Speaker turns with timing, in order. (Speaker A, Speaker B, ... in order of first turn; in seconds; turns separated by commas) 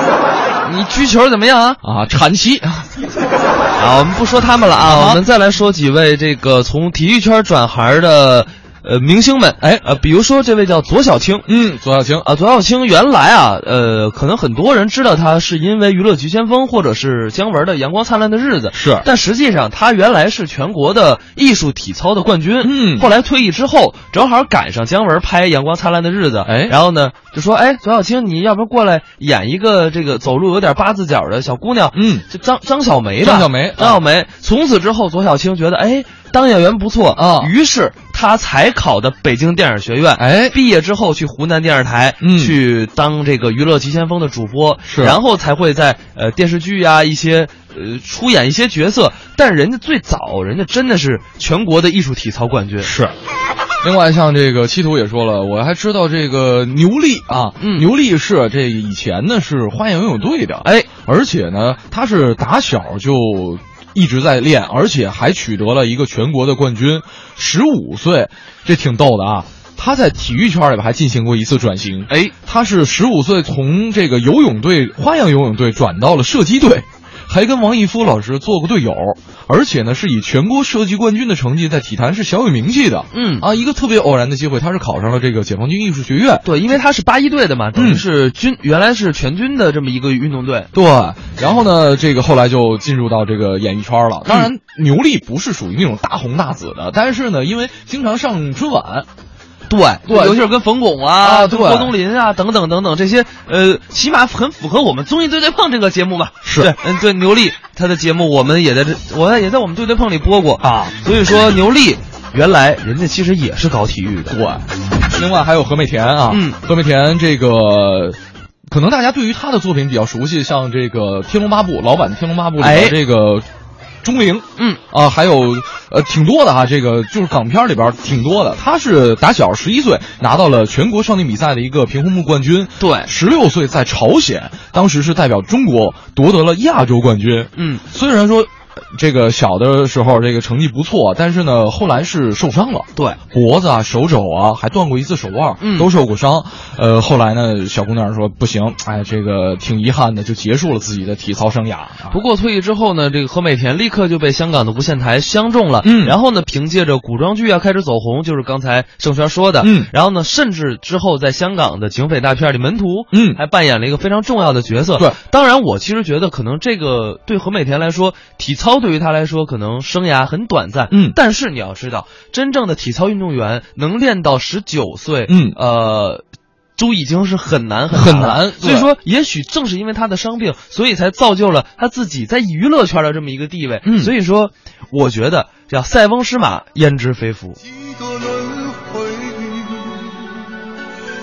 Speaker A: 0.6-1.8, Speaker B: 1.8-2.9, Speaker A: 3.8-11.5, Speaker B: 4.8-5.2, Speaker B: 11.5-12.2, Speaker A: 12.2-52.9, Speaker B: 18.7-19.1, Speaker B: 22.6-23.1, Speaker B: 26.4-26.8, Speaker B: 31.9-32.2, Speaker B: 33.2-34.0, Speaker B: 37.1-37.5, Speaker B: 40.2-40.5, Speaker B: 42.2-42.5, Speaker B: 44.9-45.2, Speaker B: 52.8-53.1, Speaker B: 53.8-86.4, Speaker A: 57.6-57.9, Speaker A: 60.6-60.9, Speaker A: 83.1-83.5, Speaker A: 86.4-90.7, Speaker B: 87.8-88.0, Speaker B: 90.7-99.1, Speaker A: 99.7-114.3, Speaker B: 100.1-100.5, Speaker B: 101.2-101.9, Speaker B: 106.4-106.7, Speaker B: 110.6-110.9, Speaker B: 114.3-118.2, Speaker A: 116.3-116.6, Speaker B: 118.7-123.4, Speaker A: 122.6-123.0, Speaker B: 124.0-152.2, Speaker A: 132.8-133.1, Speaker A: 137.6-137.8, Speaker A: 145.6-145.9, Speaker A: 152.1-176.2, Speaker B: 155.8-156.2, Speaker B: 159.6-159.9, Speaker B: 163.1-163.4, Speaker B: 170.9-171.2, Speaker B: 175.3-175.6, Speaker A: 176.8-187.6, Speaker B: 177.9-178.9, Speaker B: 183.8-184.1, Speaker C: 187.6-190.3